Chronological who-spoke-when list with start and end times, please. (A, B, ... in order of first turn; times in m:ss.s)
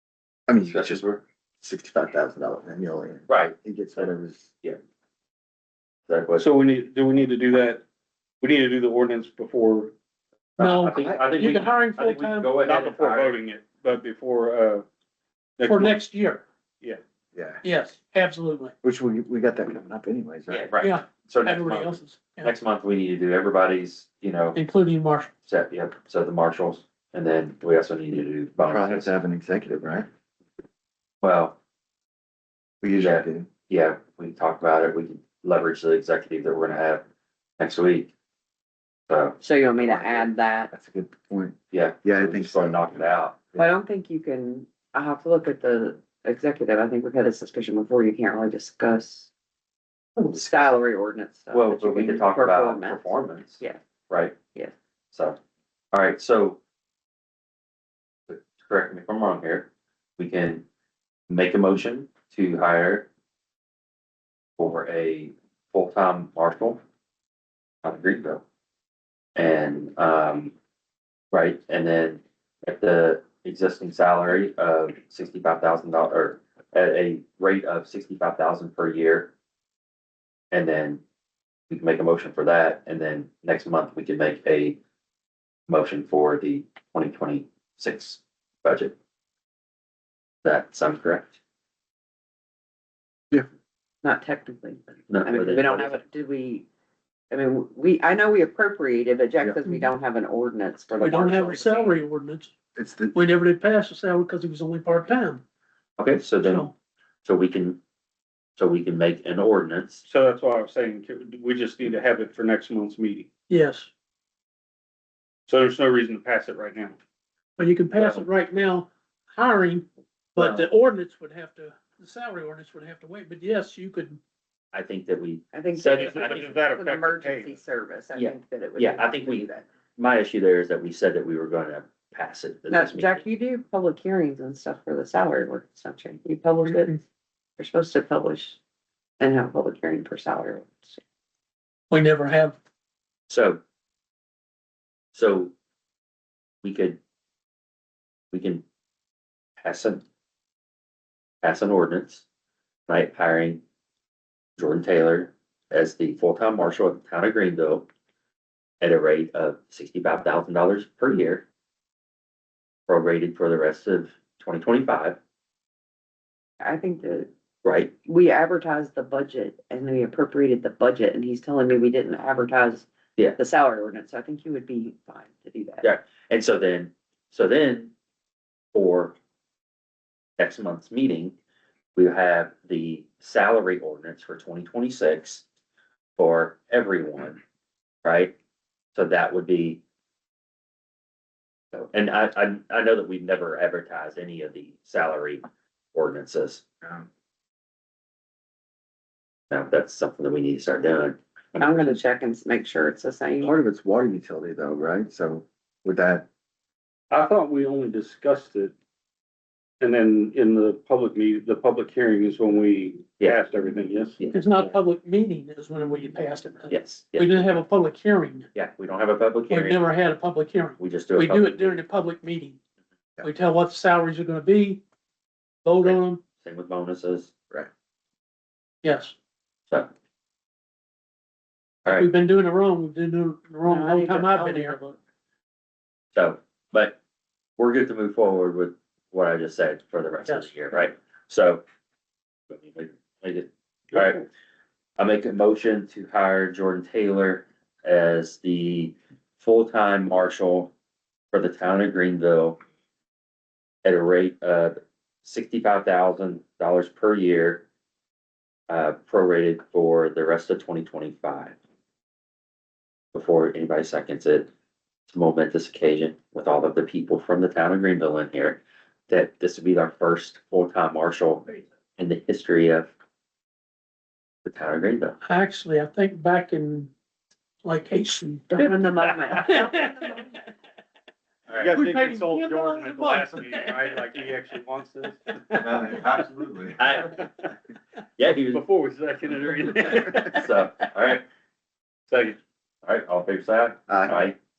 0:00.5-0:04.5 A
0:00.7-0:01.1 B
0:03.3-0:03.6 B
0:06.1-0:06.5 B
0:06.4-0:07.8 C
0:08.4-0:09.9 C
0:10.6-0:13.4 B
0:10.6-0:12.6 D
0:12.6-0:14.8 C
0:15.6-0:16.0 C
0:15.6-0:16.4 D
0:17.3-0:17.6 A
0:17.6-0:18.7 D
0:18.8-0:20.6 A
0:20.5-0:24.6 B
0:20.8-0:22.5 D
0:24.5-0:25.3 D
0:25.4-0:29.1 B
0:28.6-0:30.1 A
0:31.2-0:31.6 B
0:32.8-0:33.5 A
0:33.0-0:37.0 B
0:37.6-0:38.1 B
0:39.1-0:39.4 B
0:39.4-0:40.7 E
0:39.8-0:43.7 A
0:41.7-0:43.4 B
0:43.6-0:49.3 E
0:50.2-0:53.8 E
0:51.5-0:54.4 B
0:55.1-0:55.4 B
0:55.9-0:56.6 B
0:58.3-1:00.7 B
1:01.3-1:03.1 B
1:04.6-1:06.8 B
1:07.8-1:08.4 B
1:09.4-1:10.5 B
1:11.3-1:19.3 B
1:20.5-1:21.0 B
1:21.7-1:24.8 B
1:25.7-1:29.0 B
1:30.4-1:31.4 B
1:34.0-1:36.7 E
1:35.1-1:36.0 B
1:37.3-1:41.9 E
1:41.0-1:42.5 D
1:42.8-1:43.2 A
1:43.1-1:45.4 D
1:46.0-1:46.7 B
1:46.4-1:46.7 D
1:47.2-1:47.8 B
1:48.6-1:50.0 B
1:50.0-1:53.3 C
1:53.5-1:53.9 D
1:55.5-1:57.0 C
1:57.6-2:04.2 D
1:58.0-1:58.2 B
2:04.7-2:06.6 B
2:05.5-2:09.3 E
2:06.0-2:07.6 C
2:08.2-2:13.3 B
2:12.7-2:17.0 E
2:16.7-2:17.0 D
2:17.6-2:18.6 E
2:19.2-2:21.0 E
2:21.9-2:22.6 D
2:23.3-2:23.6 B
2:25.1-2:25.5 B
2:26.6-2:27.0 B
2:28.3-2:28.6 B
2:29.6-2:30.0 B
2:31.4-2:32.2 B
2:32.9-2:33.6 B
2:34.6-2:37.9 B
2:38.8-2:41.5 B
2:42.9-2:45.2 B
2:46.6-2:47.3 E
2:47.6-2:47.9 B
2:48.0-2:55.9 E
2:55.8-2:57.9 B
2:58.7-2:59.2 B
3:00.4-3:01.4 B
3:02.0-3:05.4 B
3:06.2-3:07.4 B
3:08.0-3:08.3 B
3:08.9-3:09.8 B
3:11.7-3:15.4 B
3:15.9-3:16.6 B
3:19.5-3:22.0 B
3:21.6-3:23.5 E
3:23.4-3:26.3 A
3:27.1-3:28.7 C
3:29.8-3:34.2 C
3:34.2-3:34.4 B
3:34.3-3:38.5 D
3:36.7-3:37.6 B
3:38.6-3:39.8 B
3:39.5-3:42.6 D
3:40.8-3:41.8 B
3:43.2-3:44.8 D
3:45.6-3:46.2 D
3:45.8-3:47.3 B
3:48.8-3:49.1 D
3:51.9-3:54.8 D
3:53.6-3:55.0 E
3:56.1-3:57.0 B
3:57.6-4:01.6 B
4:00.3-4:00.5 D
4:02.5-4:04.3 B
4:05.0-4:10.7 B
4:11.3-4:12.6 B
4:13.8-4:17.7 B
4:18.7-4:21.6 B
4:23.1-4:24.5 B
4:25.1-4:32.9 B
4:34.4-4:35.2 B
4:35.2-4:36.9 D
4:37.6-4:40.3 D
4:38.5-4:40.3 E
4:41.5-4:45.2 C
4:41.6-4:43.8 D
4:45.6-4:46.8 A
4:46.8-4:47.2 B
4:47.2-4:47.5 C
4:48.2-4:48.6 B
4:48.3-4:50.4 C
4:50.0-4:51.2 B
4:52.1-4:52.4 C
4:52.8-4:54.4 B
4:53.9-4:54.3 A